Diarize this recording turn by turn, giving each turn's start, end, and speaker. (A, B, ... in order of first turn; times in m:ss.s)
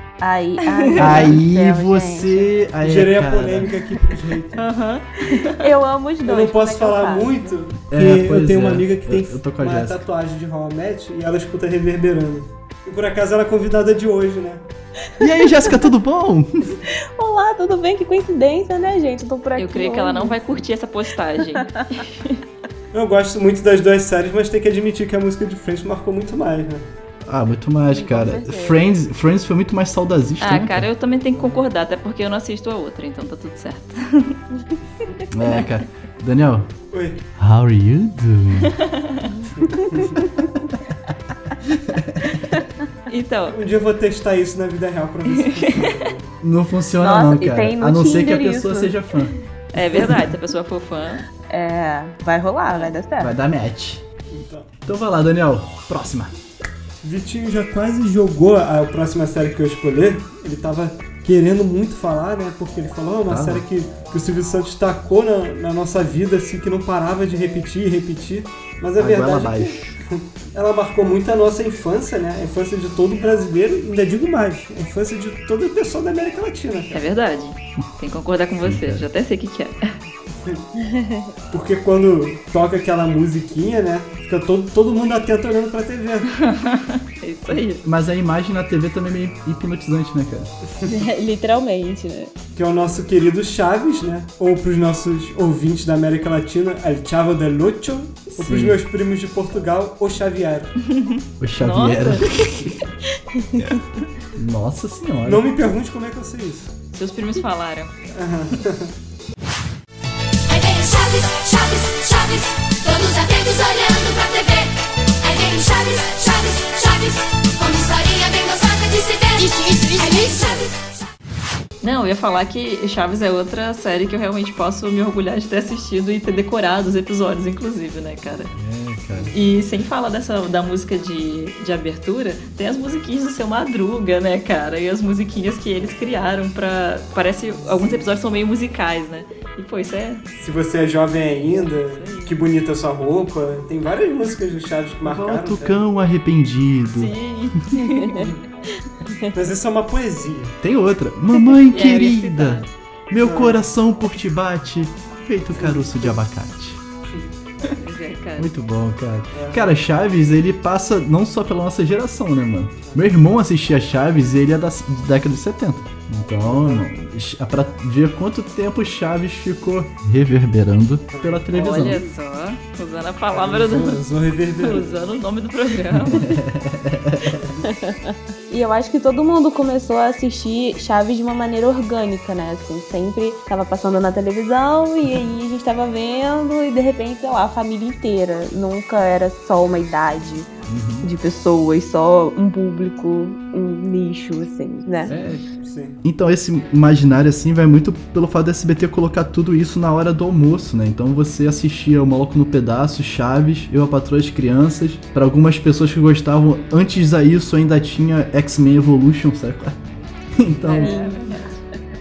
0:00.2-0:02.5 A
0:00.7-0:01.3 B
0:01.0-0:03.7 C
0:02.8-0:04.6 D
0:04.6-0:05.7 B
0:05.5-0:07.6 A
0:06.2-0:14.6 D
0:07.9-0:10.0 C
0:15.2-0:16.8 C
0:17.2-0:20.4 A
0:19.6-0:22.4 B
0:22.9-0:26.8 D
0:27.2-0:30.9 C
0:27.9-0:28.9 A
0:30.4-0:34.4 B
0:31.4-0:31.6 D
0:35.3-0:36.7 C
0:36.9-0:37.2 D
0:37.4-0:38.7 C
0:38.7-0:39.4 B
0:39.6-0:40.3 D
0:41.8-0:42.4 C
0:43.1-0:43.6 B
0:43.5-0:46.3 D
0:45.3-0:45.7 B
0:46.4-0:49.3 C
0:47.0-0:49.0 A
0:49.7-0:51.2 B
0:51.5-0:53.3 A
0:53.2-0:54.0 C
0:54.3-0:54.7 D
0:54.9-0:56.3 C
0:57.0-1:09.8 D
1:03.3-1:03.6 C
1:09.0-1:10.0 C
1:10.5-1:17.0 D
1:16.9-1:20.0 B
1:18.6-1:19.1 C
1:20.8-1:21.3 A
1:21.5-1:26.3 D
1:26.4-1:27.8 B
1:27.8-1:30.5 C
1:30.9-1:32.3 A
1:32.5-1:40.7 D
1:38.3-1:38.8 C
1:40.8-1:42.6 B
1:41.4-1:42.8 C
1:44.4-1:45.5 C
1:45.2-1:46.7 D
1:46.9-1:47.9 B
1:48.1-1:48.9 D
1:50.5-2:01.0 E
1:59.4-2:00.6 A
2:01.8-2:08.5 B
2:08.5-2:09.3 C
2:09.3-2:20.2 B
2:20.4-2:25.8 D
2:21.4-2:22.4 B
2:25.0-2:27.2 C
2:26.9-2:28.3 B
2:29.3-2:30.5 D
2:30.6-2:36.8 C
2:31.7-2:32.7 B
2:33.2-2:33.6 D
2:35.5-2:36.2 D
2:37.8-2:38.5 B
2:38.4-2:52.1 C
2:39.3-2:39.7 D
2:46.4-2:46.8 D
2:51.1-2:51.4 D
2:51.5-2:54.0 B
2:53.3-2:55.0 D
2:54.5-2:56.3 B
2:56.0-2:57.4 C
2:57.7-3:10.5 A
3:10.7-3:11.1 C
3:11.0-3:15.1 A
3:15.0-3:15.5 C
3:15.6-3:16.0 D
3:16.0-3:29.8 C
3:30.4-3:31.0 C
3:30.6-3:31.5 B
3:30.8-3:31.4 A